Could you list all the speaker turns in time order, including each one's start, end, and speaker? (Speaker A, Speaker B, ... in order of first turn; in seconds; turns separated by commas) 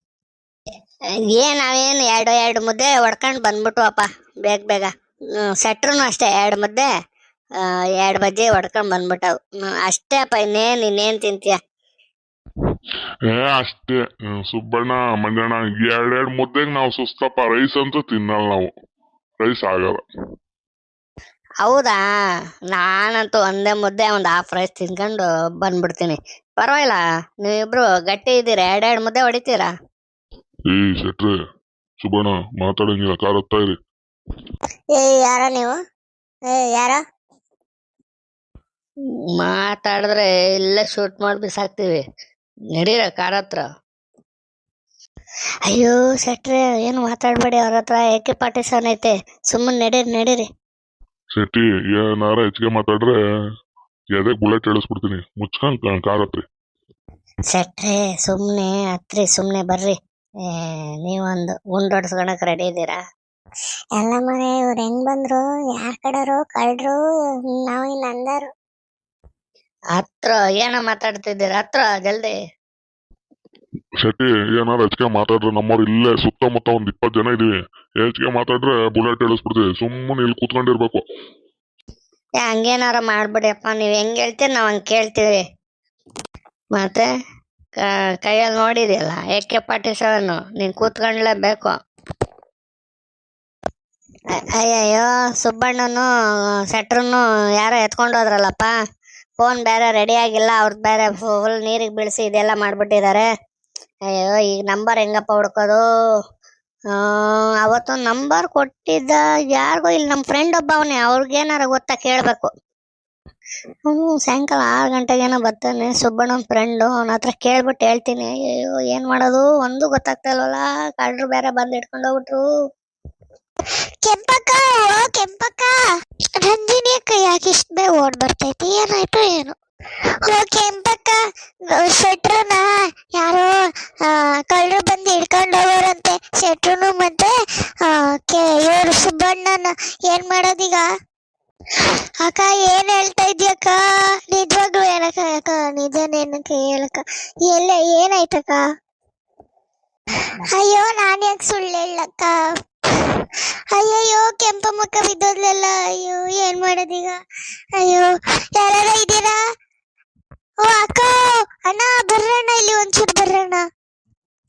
Speaker A: 1.4-6.9, Speaker A: 7.6-11.6, Speaker B: 13.3-18.7, Speaker B: 19.4-20.0, Speaker A: 21.6-22.0, Speaker A: 22.7-29.7, Speaker B: 30.7-31.3, Speaker B: 32.0-33.7, Speaker C: 34.9-35.8, Speaker C: 36.5-37.0, Speaker A: 39.4-42.0, Speaker A: 42.7-43.6, Speaker A: 45.6-50.5, Speaker B: 51.3-53.1, Speaker B: 54.1-56.4, Speaker A: 57.5-63.0, Speaker C: 64.0-68.5, Speaker A: 69.9-72.3, Speaker B: 74.0-77.5, Speaker B: 78.0-81.0, Speaker A: 82.4-85.3, Speaker A: 86.7-87.1, Speaker A: 87.8-91.8, Speaker A: 94.4-96.1, Speaker A: 96.7-98.7, Speaker A: 99.4-103.2, Speaker A: 104.1-105.8, Speaker A: 106.9-112.5, Speaker A: 113.9-122.4, Speaker C: 124.0-125.7, Speaker C: 126.4-129.5, Speaker C: 130.2-131.2, Speaker C: 131.7-137.3, Speaker C: 137.8-140.9, Speaker C: 142.2-143.8, Speaker C: 144.3-148.6, Speaker C: 150.5-152.3, Speaker C: 153.0-157.2, Speaker C: 157.8-159.3, Speaker C: 160.6-163.6